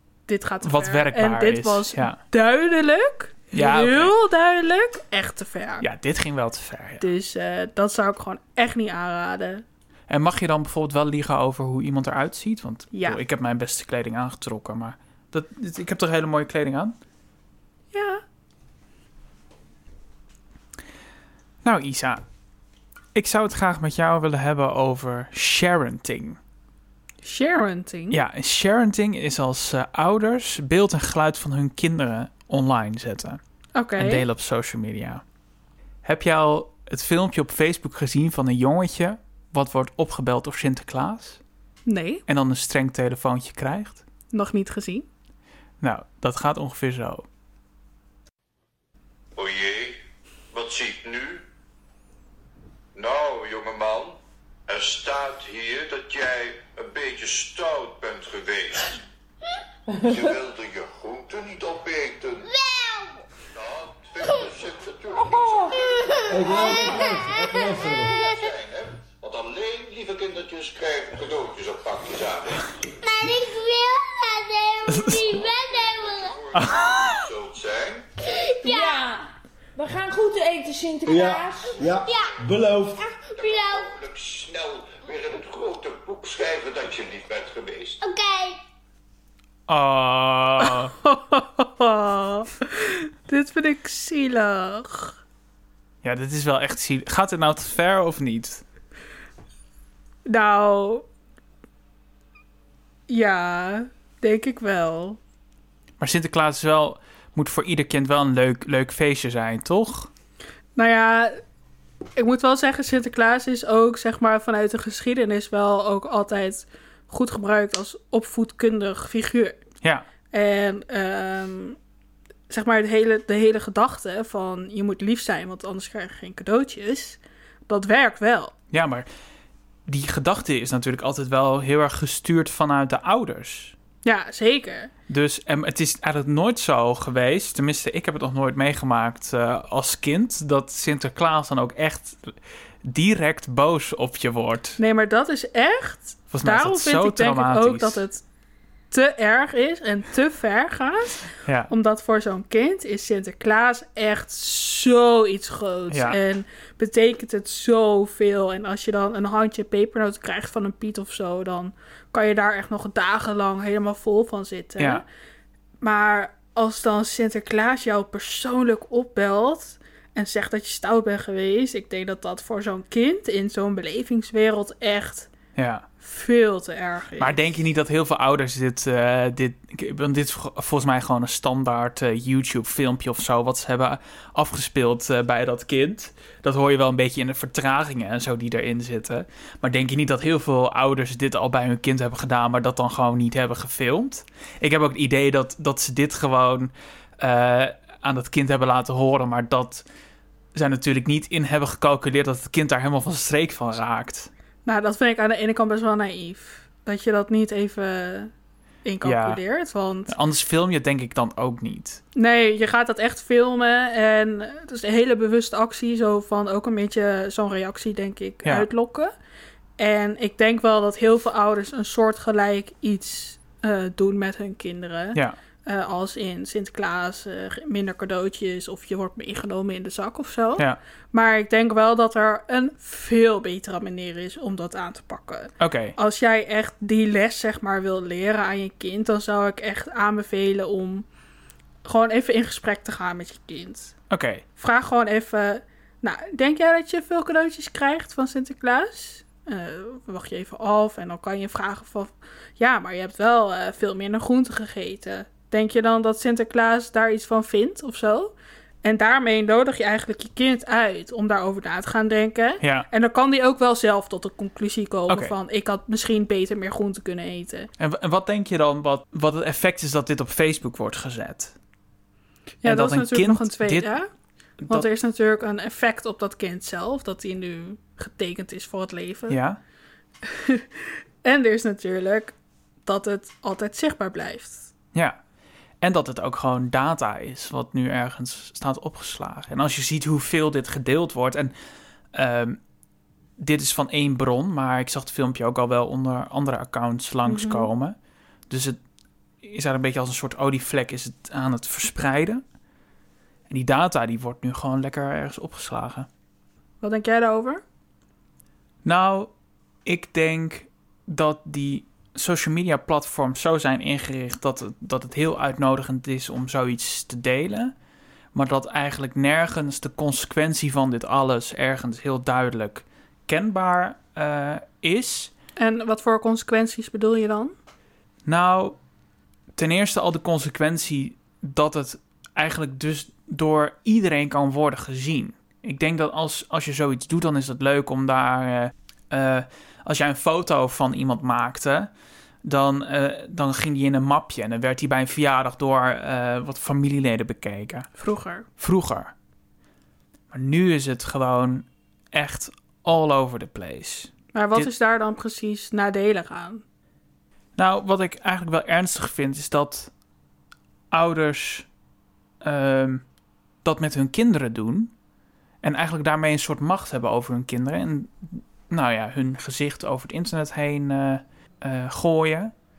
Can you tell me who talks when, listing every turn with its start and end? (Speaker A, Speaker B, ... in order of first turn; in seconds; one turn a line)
Speaker A: 0.3-5.9
Speaker B: 0.6-2.2
Speaker B: 3.5-4.1
Speaker B: 5.8-7.1
Speaker A: 7.0-9.6
Speaker B: 10.1-17.0
Speaker A: 12.9-13.2
Speaker A: 17.9-18.2
Speaker B: 21.6-22.2
Speaker B: 23.1-26.4
Speaker A: 27.2-28.2
Speaker B: 28.1-33.4
Speaker A: 33.8-34.2
Speaker B: 34.0-35.2
Speaker B: 36.0-41.4
Speaker A: 41.9-42.2
Speaker B: 42.3-44.0
Speaker A: 44.3-45.1
Speaker B: 45.8-47.3
Speaker C: 49.4-50.0
Speaker C: 50.5-51.4
Speaker C: 53.0-59.0
Speaker C: 60.0-62.5
Speaker D: 62.5-63.2
Speaker C: 63.5-72.7
Speaker D: 66.0-68.5
Speaker E: 66.3-68.1
Speaker D: 73.0-76.4
Speaker B: 74.9-75.2
Speaker C: 75.2-78.1
Speaker B: 76.5-77.0
Speaker D: 78.3-79.1
Speaker F: 78.7-79.1
Speaker F: 79.8-81.7
Speaker E: 81.0-83.0
Speaker D: 82.0-82.4
Speaker D: 83.0-83.9
Speaker C: 83.3-88.0
Speaker D: 88.0-88.6
Speaker B: 89.7-90.9
Speaker A: 90.7-95.2
Speaker B: 96.0-98.6
Speaker A: 100.3-101.0
Speaker A: 103.1-105.2
Speaker B: 106.0-110.1
Speaker A: 110.8-111.4
Speaker A: 112.2-119.6
Speaker B: 119.8-120.1
Speaker A: 120.3-121.8
Speaker A: 122.5-128.5
Speaker B: 128.7-129.1
Speaker B: 129.9-133.7
Speaker A: 134.0-134.9
Speaker B: 135.1-142.2
Speaker B: 142.8-144.8
Speaker A: 144.8-148.2
Speaker B: 146.3-148.0
Speaker A: 148.9-165.1
Speaker B: 151.5-151.7
Speaker B: 155.9-156.2
Speaker B: 164.8-165.0
Speaker A: 165.8-175.3
Speaker B: 175.6-175.9
Speaker A: 176.0-177.5
Speaker B: 177.2-199.8
Speaker B: 200.6-204.3
Speaker A: 204.7-208.3
Speaker A: 208.8-210.1
Speaker B: 209.0-209.4
Speaker B: 210.1-212.0
Speaker A: 212.2-219.1
Speaker A: 219.8-241.1
Speaker B: 235.6-236.0
Speaker A: 241.8-243.9
Speaker B: 244.1-244.4
Speaker A: 244.6-267.7
Speaker B: 262.6-262.9
Speaker B: 265.1-265.4
Speaker B: 267.8-271.6
Speaker A: 272.6-274.1
Speaker B: 272.6-273.9
Speaker A: 274.6-279.4
Speaker B: 279.3-279.6
Speaker A: 280.3-282.3
Speaker A: 282.9-284.7
Speaker B: 285.8-291.5
Speaker B: 292.1-292.6
Speaker B: 293.4-297.9
Speaker A: 297.3-297.7
Speaker B: 298.5-298.8
Speaker B: 299.4-302.4
Speaker B: 303.5-306.1
Speaker A: 306.8-307.6
Speaker B: 308.9-309.3
Speaker B: 309.9-317.7
Speaker B: 318.3-325.3
Speaker A: 325.6-327.5
Speaker B: 328.3-328.8
Speaker B: 329.6-341.9
Speaker B: 342.4-347.9
Speaker A: 348.0-348.5
Speaker B: 348.6-349.1
Speaker B: 350.3-354.7
Speaker A: 354.3-356.6
Speaker B: 357.6-359.9
Speaker B: 360.9-361.7
Speaker B: 362.4-363.0
Speaker B: 363.6-364.9
Speaker B: 365.6-372.5